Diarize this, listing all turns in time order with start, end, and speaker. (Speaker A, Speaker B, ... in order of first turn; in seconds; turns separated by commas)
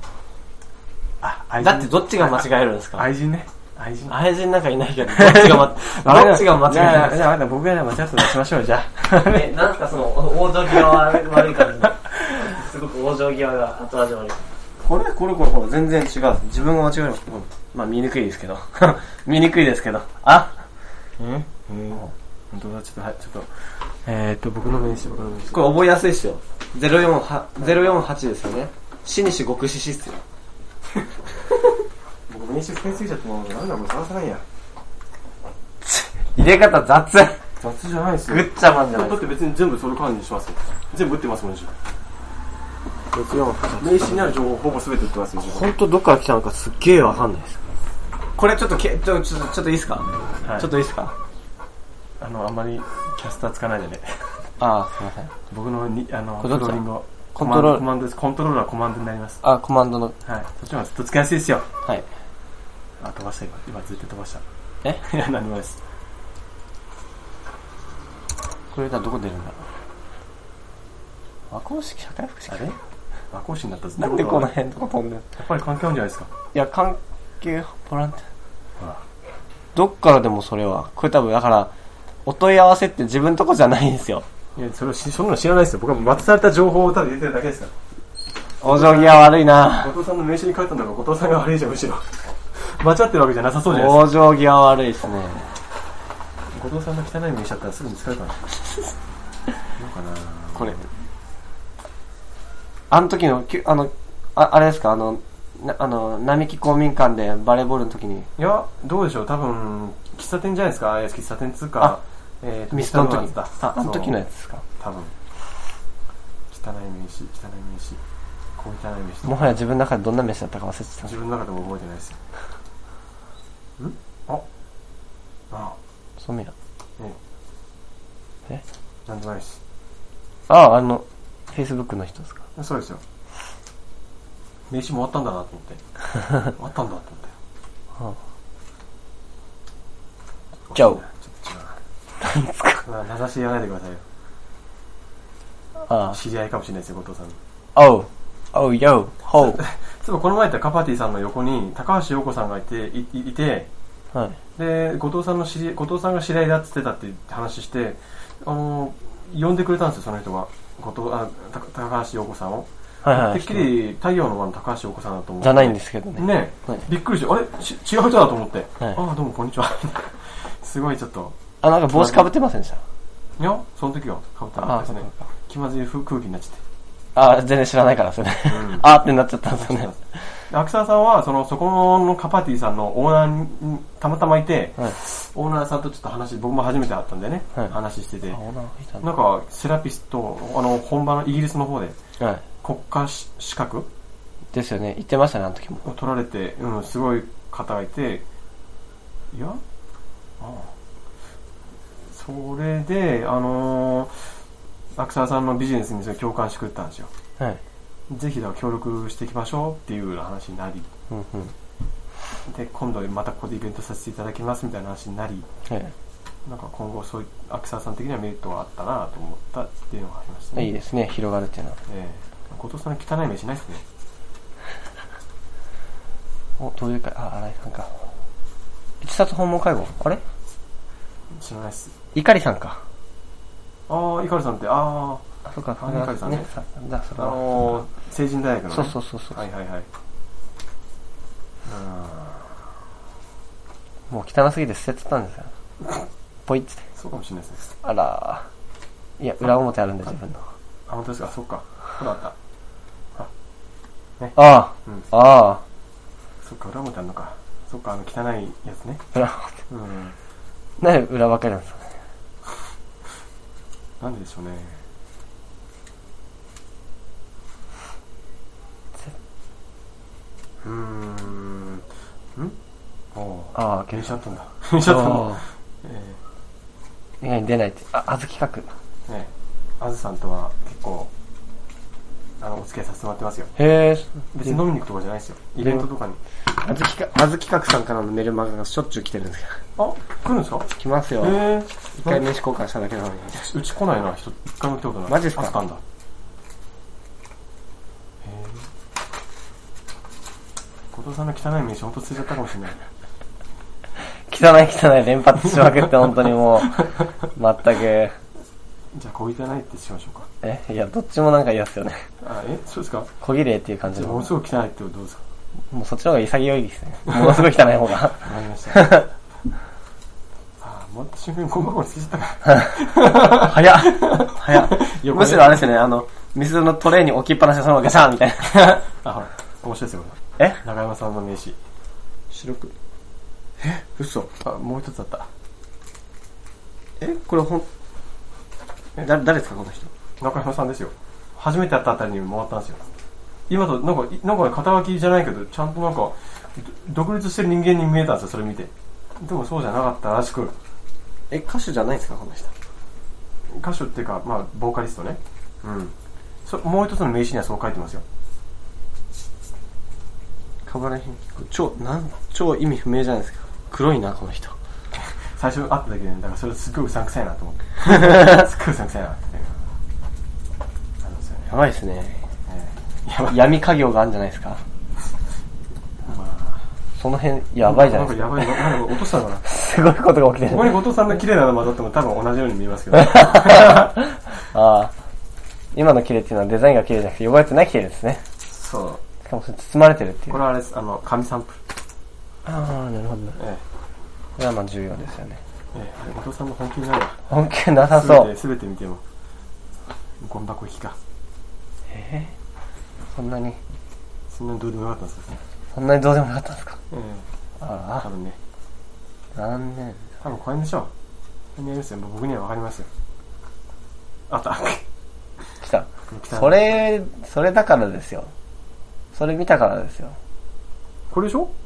Speaker A: 1.2-4.2, Speaker B: 1.6-3.1, Speaker B: 4.1-7.3, Speaker A: 5.1-9.6, Speaker B: 9.2-20.6, Speaker A: 10.7-11.9, Speaker A: 21.2-25.6, Speaker B: 25.5-30.2, Speaker A: 32.3-34.4, Speaker B: 35.8-37.4, Speaker A: 37.6-41.7, Speaker B: 38.3-39.3, Speaker B: 43.1-44.4, Speaker A: 43.8-45.7, Speaker B: 45.5-47.6, Speaker B: 48.4-51.1, Speaker A: 50.4-50.7, Speaker A: 52.2-54.5, Speaker B: 54.6-55.3, Speaker A: 55.5-59.4, Speaker B: 56.4-56.8, Speaker B: 57.4-57.9, Speaker B: 59.4-60.2, Speaker A: 60.2-61.7, Speaker A: 63.0-64.4, Speaker A: 65.0-65.8, Speaker B: 68.7-69.7, Speaker B: 71.5-72.7, Speaker A: 72.5-72.8, Speaker A: 73.3-74.5, Speaker B: 74.0-75.3, Speaker A: 75.4-76.3, Speaker B: 76.5-78.3, Speaker B: 79.8-81.7, Speaker B: 82.3-84.2, Speaker A: 84.6-87.7, Speaker B: 88.6-89.9, Speaker A: 88.7-94.1, Speaker B: 93.7-95.5, Speaker A: 96.5-98.4, Speaker A: 99.8-100.9, Speaker B: 102.9-108.3, Speaker A: 108.4-114.2, Speaker B: 112.7-114.7, Speaker A: 114.8-115.1, Speaker A: 116.5-118.0, Speaker A: 118.6-119.6, Speaker B: 119.2-121.2, Speaker A: 121.0-122.2, Speaker A: 123.8-124.5, Speaker A: 125.5-125.8, Speaker B: 126.2-126.5, Speaker A: 129.1-129.6, Speaker B: 130.5-132.4, Speaker A: 132.6-133.0, Speaker A: 134.7-135.8, Speaker A: 136.5-137.3, Speaker A: 140.7-141.8, Speaker B: 140.7-141.0, Speaker B: 142.2-142.8, Speaker A: 142.8-144.0, Speaker B: 145.9-146.2, Speaker A: 146.1-147.4, Speaker B: 147.8-149.6, Speaker A: 149.4-153.7, Speaker B: 154.1-154.4, Speaker A: 154.6-171.4, Speaker B: 163.0-163.7, Speaker B: 165.4-166.9, Speaker B: 171.6-172.8, Speaker A: 171.9-172.2, Speaker A: 173.4-176.6, Speaker B: 174.6-175.3, Speaker B: 177.2-180.4, Speaker A: 178.5-178.9, Speaker A: 179.5-180.0, Speaker A: 180.5-188.4, Speaker B: 188.3-189.1, Speaker A: 189.0-192.0, Speaker A: 192.6-193.9, Speaker B: 194.5-195.9, Speaker A: 195.8-198.2, Speaker A: 199.3-199.6, Speaker A: 200.4-200.7, Speaker A: 202.1-204.3, Speaker A: 205.0-207.1, Speaker A: 208.1-210.9, Speaker B: 211.1-211.5, Speaker A: 212.5-215.5, Speaker A: 216.5-220.7, Speaker B: 220.6-221.8, Speaker A: 221.9-223.8, Speaker B: 226.6-228.0, Speaker B: 229.0-230.2, Speaker A: 231.3-231.9, Speaker B: 232.1-232.8, Speaker A: 233.9-235.2, Speaker B: 235.5-237.9, Speaker A: 235.8-236.5, Speaker A: 237.2-239.9, Speaker B: 238.7-239.4, Speaker A: 241.7-242.6, Speaker B: 244.1-245.5, Speaker B: 246.5-246.8, Speaker A: 247.0-247.7, Speaker B: 247.8-248.5, Speaker B: 249.2-250.4, Speaker A: 250.9-252.3, Speaker A: 254.2-255.1, Speaker B: 254.3-255.6, Speaker A: 256.4-259.1, Speaker B: 259.1-259.6, Speaker A: 259.7-260.1, Speaker B: 260.8-261.9, Speaker A: 264.0-264.8, Speaker A: 270.6-271.8, Speaker A: 273.1-276.2, Speaker B: 273.6-274.2, Speaker B: 274.7-275.4, Speaker B: 277.2-278.7, Speaker A: 279.1-281.1, Speaker A: 282.4-283.5, Speaker B: 283.6-284.6, Speaker A: 284.3-286.2, Speaker B: 285.6-285.9, Speaker B: 286.6-289.6, Speaker A: 289.8-290.7, Speaker B: 290.8-291.4, Speaker A: 291.2-292.2, Speaker B: 292.0-293.5, Speaker A: 293.5-295.8, Speaker B: 295.1-295.6, Speaker A: 298.2-298.7, Speaker A: 300.9-302.8, Speaker B: 304.3-308.1, Speaker A: 308.9-310.3, Speaker B: 310.4-312.1, Speaker A: 312.2-313.1, Speaker B: 313.2-314.4, Speaker A: 313.9-315.2, Speaker B: 315.7-319.1, Speaker A: 318.2-318.9, Speaker A: 320.6-325.6, Speaker B: 322.5-328.8, Speaker A: 328.9-331.6, Speaker B: 332.3-332.7, Speaker B: 333.6-334.3, Speaker A: 334.4-335.3, Speaker B: 337.0-337.7, Speaker B: 339.0-339.9, Speaker A: 340.2-342.9, Speaker A: 343.5-350.6, Speaker B: 351.3-352.5, Speaker A: 353.5-355.9, Speaker A: 356.4-358.0, Speaker B: 360.7-364.6, Speaker A: 365.0-369.6, Speaker B: 367.9-368.4, Speaker A: 371.0-371.5, Speaker B: 371.5-372.2, Speaker A: 372.5-373.5, Speaker B: 373.3-374.6, Speaker A: 376.1-376.6, Speaker B: 377.0-378.9, Speaker A: 377.6-379.4, Speaker B: 379.4-380.8, Speaker A: 380.5-383.9, Speaker B: 382.9-384.9, Speaker B: 385.7-388.2, Speaker A: 388.5-389.0, Speaker B: 389.2-390.4, Speaker A: 390.3-391.6, Speaker B: 392.4-393.4, Speaker A: 393.4-393.6, Speaker B: 394.4-395.4, Speaker A: 395.7-397.2, Speaker B: 397.3-398.3, Speaker A: 397.9-399.0, Speaker A: 400.2-401.0, Speaker B: 401.9-402.3, Speaker B: 403.1-403.6, Speaker A: 404.3-405.4, Speaker B: 405.7-406.8, Speaker A: 406.9-407.3, Speaker B: 407.6-408.1, Speaker A: 408.0-408.4, Speaker B: 409.4-410.2, Speaker A: 410.2-410.9, Speaker A: 411.6-412.9, Speaker A: 414.3-414.8, Speaker B: 415.6-418.3, Speaker A: 416.1-416.7, Speaker B: 419.1-420.2, Speaker A: 421.1-421.5